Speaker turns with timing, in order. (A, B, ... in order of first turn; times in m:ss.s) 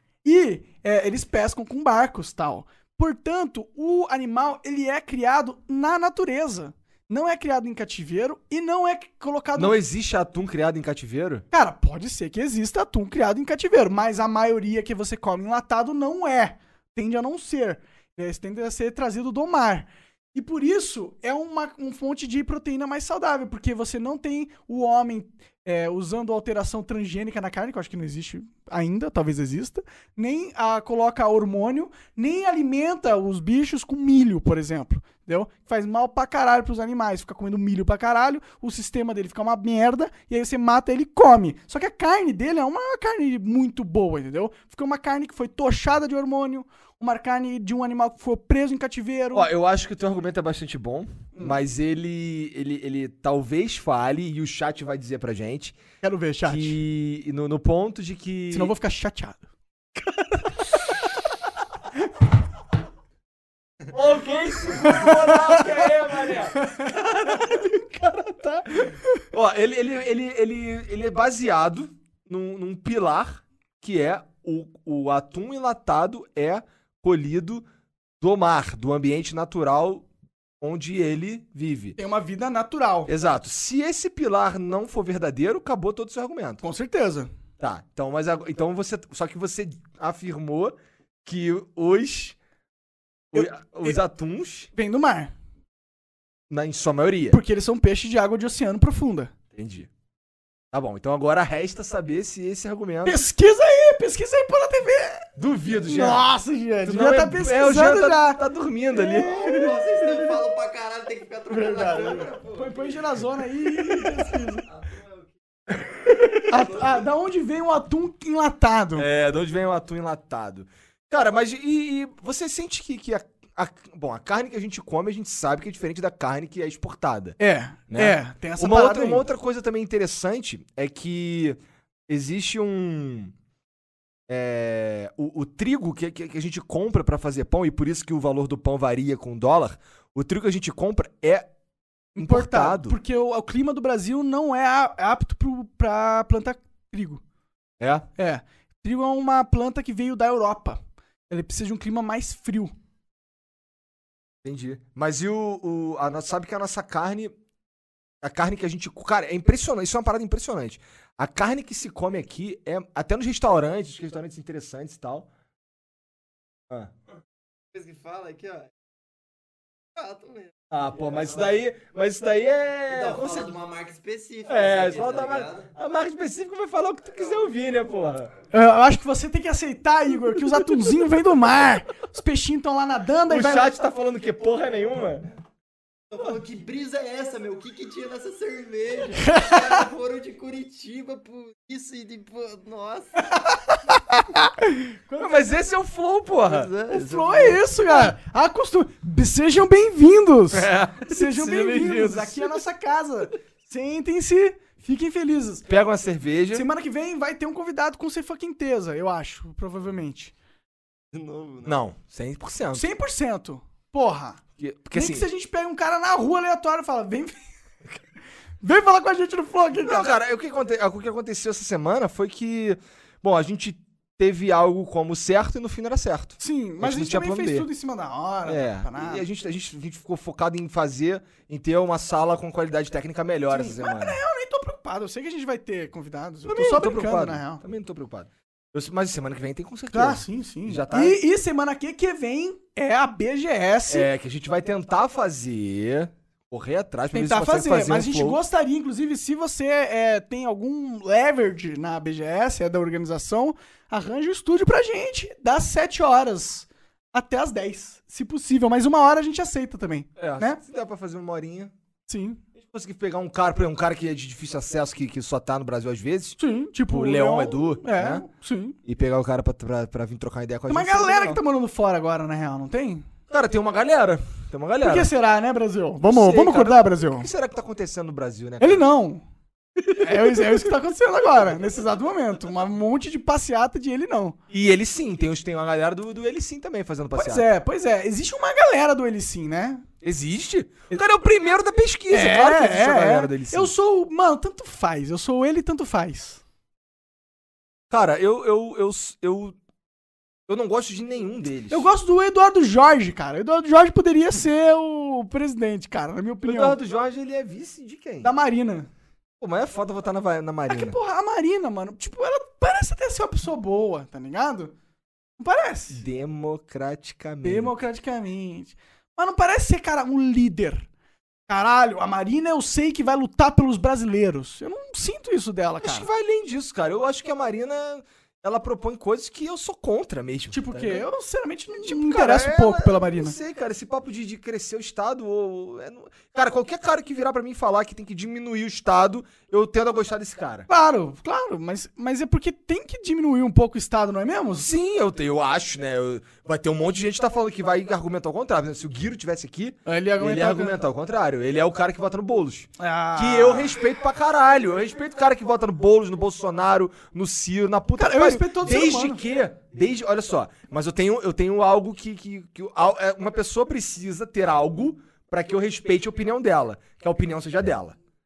0:00.2-0:09.8 A
0:09.6-0:11.4 B
0:11.5-0:49.5 A
0:49.3-0:55.8 B
0:56.0-0:56.8 A
0:56.4-0:58.7 B
0:58.5-0:59.4 A
1:03.9-1:17.6 B
1:04.9-1:05.3 A
1:18.2-1:20.1 B
1:20.6-1:22.0 B
1:22.0-1:23.1 A
1:23.1-1:26.6 B
1:26.6-1:27.3 A
1:27.6-1:32.4 B
1:33.3-1:34.7 B
1:33.3-1:34.0 A
1:34.8-1:35.3 A
1:36.5-1:37.4 B
1:37.3-1:39.3 A
1:39.6-1:39.9 B
1:40.7-1:43.2 B
1:43.0-1:45.3 A
1:45.4-1:46.2 B
1:45.9-1:48.4 A
1:46.8-1:49.3 B
1:48.9-1:50.3 A
1:49.1-1:53.0 C
1:51.5-1:54.7 A
1:53.9-1:55.3 C
1:55.9-1:56.4 B
1:56.5-1:59.1 A
1:56.6-1:56.9 C
1:59.0-2:07.4 B
2:07.4-2:09.2 A
2:07.9-2:13.3 B
2:14.3-2:21.5 B
2:22.2-2:27.2 A
2:22.2-2:23.0 B
2:27.8-2:28.1 B
2:28.2-2:32.7 A
2:34.4-2:37.4 B
2:38.2-2:45.3 B
2:47.7-2:48.7 C
2:50.0-2:51.5 C
2:50.7-2:53.6 B
2:52.9-2:55.7 C
2:54.5-2:58.3 B
2:58.5-3:03.7 A
3:03.3-3:05.3 B
3:06.1-3:13.4 C
3:09.3-3:09.6 A
3:13.7-3:15.5 A
3:15.2-3:16.7 B
3:16.4-3:17.6 C
3:16.9-3:25.7 A
3:20.5-3:22.5 B
3:25.7-3:26.7 B
3:26.5-3:30.3 A
3:31.1-3:31.8 C
3:31.6-3:32.9 B
3:32.7-3:34.4 A
3:34.6-3:35.3 B
3:34.9-3:37.4 A
3:38.6-3:40.1 A
3:39.8-3:47.7 B
3:46.4-3:49.2 A
3:48.5-3:54.2 B
3:53.5-3:57.6 A
3:56.5-4:01.2 B
3:59.9-4:04.1 A
4:03.9-4:08.4 B
4:07.1-4:20.6 A
4:20.2-4:21.7 B
4:22.1-4:22.4 A
4:22.6-4:26.4 B
4:26.4-4:28.8 A
4:26.9-4:28.3 B
4:28.8-4:31.4 B
4:30.7-4:33.1 A
4:33.3-4:35.1 B
4:34.8-4:37.3 A
4:36.1-4:38.8 B
4:38.6-4:39.2 A
4:40.0-4:44.4 A
4:44.5-4:47.5 B
4:47.1-4:49.9 A
4:50.0-4:53.7 B
4:52.1-4:56.4 A
4:57.9-4:59.6 B
5:00.5-5:01.9 B
5:01.7-5:06.8 A
5:06.4-5:08.3 B
5:08.2-5:08.9 A
5:09.4-5:11.0 B
5:10.7-5:14.8 A
5:15.4-5:16.0 A
5:15.9-5:17.7 B
5:17.4-5:20.9 A
5:21.5-5:26.1 A
5:25.8-5:31.0 B
5:30.5-5:33.4 A
5:31.8-5:40.7 B
5:40.7-5:44.7 A
5:44.6-6:08.0 B
5:49.9-5:50.8 A
5:52.8-5:53.8 A
5:58.0-5:59.2 A